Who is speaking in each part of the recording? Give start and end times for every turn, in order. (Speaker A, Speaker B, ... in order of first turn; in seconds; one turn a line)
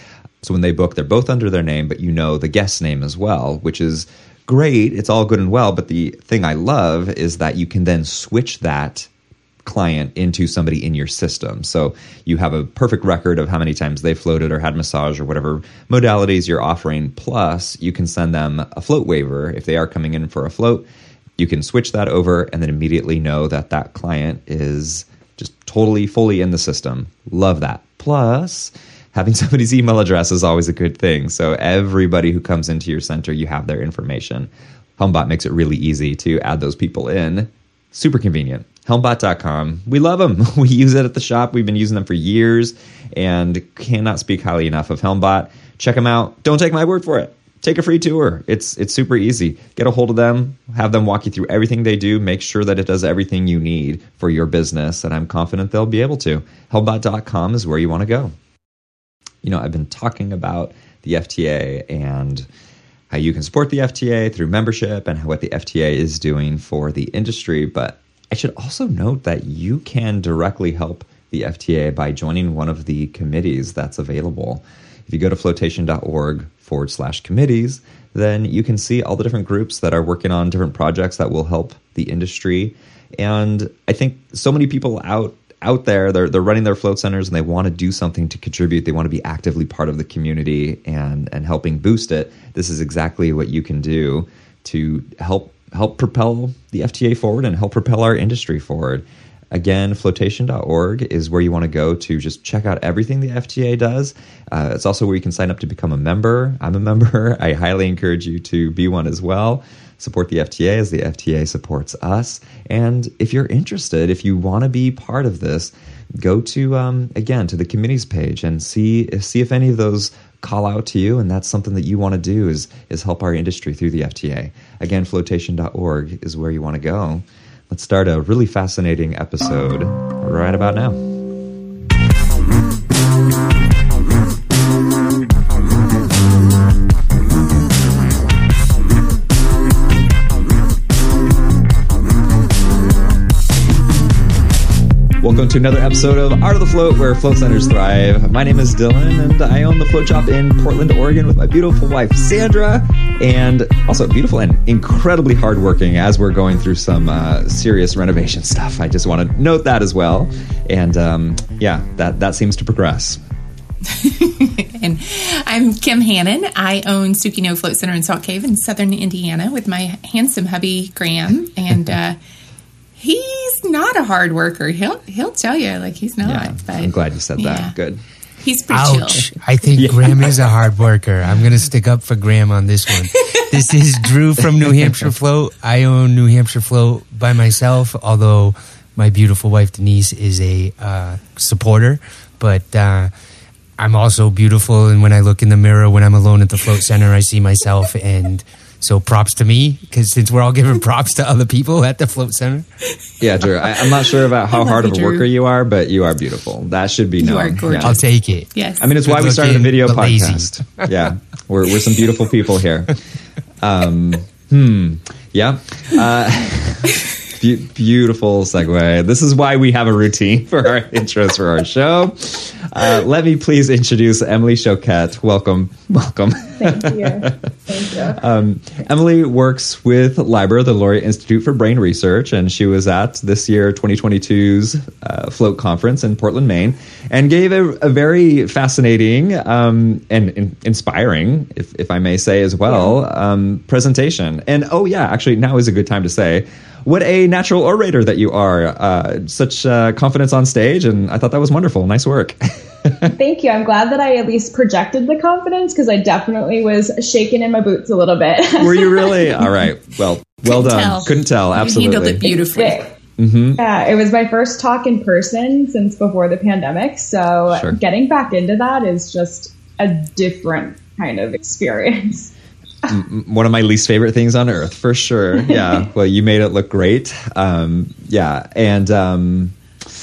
Speaker A: 0.4-9.1
Speaker A: 9.7-20.9
Speaker A: 21.4-58.3
Speaker A: 59.4-62.5
Speaker A: 63.1-131.0
Speaker A: 145.2-163.2
Speaker B: 163.9-172.2
Speaker B: 173.0-177.8
Speaker A: 176.2-178.0
Speaker B: 178.4-179.3
Speaker C: 178.7-193.1
Speaker A: 179.8-180.2
Speaker C: 193.8-202.7
Speaker A: 203.2-208.0
Speaker B: 203.7-205.2
Speaker B: 207.2-208.9
Speaker C: 207.8-210.9
Speaker A: 208.8-213.0
Speaker A: 213.6-227.4
Speaker D: 226.6-228.2
Speaker A: 228.1-253.1
Speaker D: 242.7-243.0
Speaker D: 253.1-259.5
Speaker A: 258.6-262.2
Speaker B: 260.5-262.9
Speaker D: 262.3-262.9
Speaker A: 263.2-263.6
Speaker D: 263.6-272.3
Speaker A: 267.5-267.8
Speaker A: 272.9-279.6
Speaker D: 275.5-275.8